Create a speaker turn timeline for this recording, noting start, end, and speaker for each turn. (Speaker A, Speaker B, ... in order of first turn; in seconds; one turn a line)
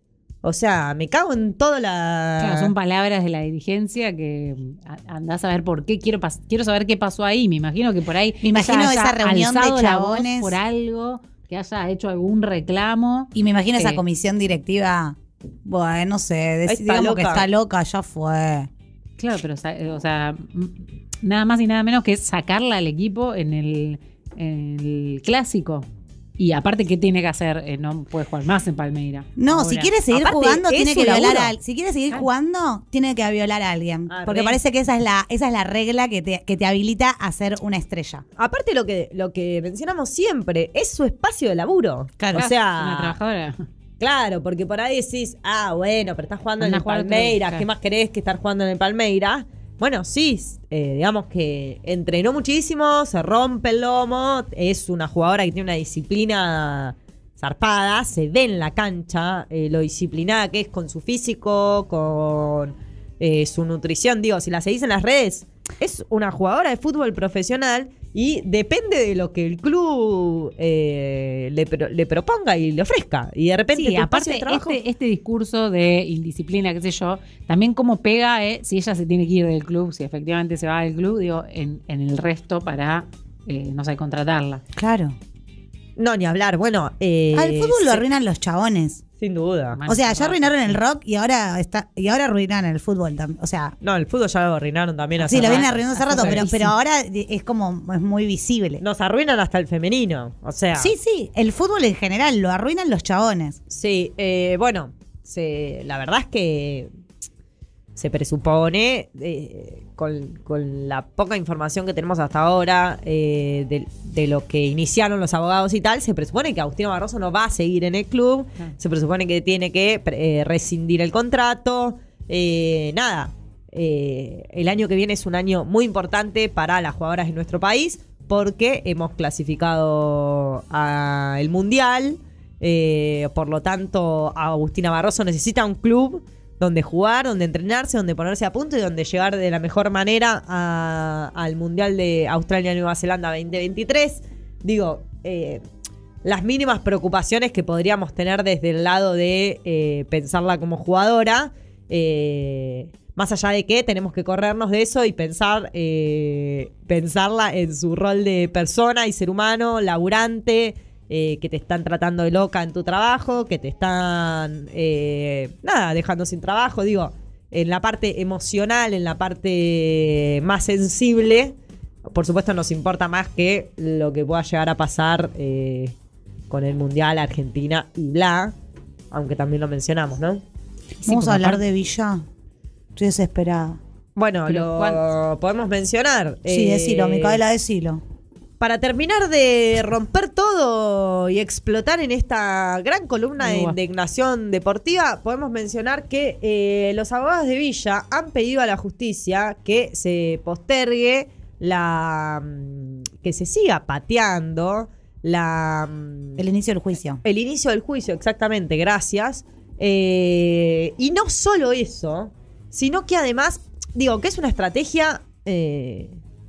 Speaker A: 0.4-2.7
Speaker B: 2.4-14.0
Speaker C: 8.4-10.6
Speaker C: 13.3-18.7
Speaker A: 16.7-17.5
Speaker B: 19.2-25.9
Speaker B: 26.4-29.9
Speaker C: 29.4-38.2
Speaker A: 30.1-31.5
Speaker A: 34.1-34.6
Speaker A: 38.4-43.2
Speaker B: 42.3-43.7
Speaker A: 44.0-74.8
Speaker B: 46.6-47.6
Speaker B: 73.7-84.6
Speaker C: 84.8-85.2
Speaker A: 86.0-88.1
Speaker C: 87.3-89.0
Speaker A: 89.2-89.8
Speaker B: 89.8-90.8
Speaker C: 89.9-93.8
Speaker A: 93.8-96.5
Speaker B: 95.2-96.7
Speaker C: 95.2-98.8
Speaker A: 98.8-100.9
Speaker C: 100.8-103.6
Speaker A: 103.7-106.9
Speaker A: 108.0-145.6
Speaker A: 146.2-171.6
Speaker A: 172.1-175.9
Speaker A: 176.5-178.5
Speaker A: 179.1-180.4
Speaker B: 181.0-181.6
Speaker C: 181.0-182.2
Speaker C: 183.0-183.8
Speaker A: 184.2-187.4
Speaker B: 184.5-185.0
Speaker C: 186.5-188.0
Speaker A: 188.6-206.4
Speaker B: 193.4-193.8
Speaker C: 206.4-207.2
Speaker A: 207.2-216.2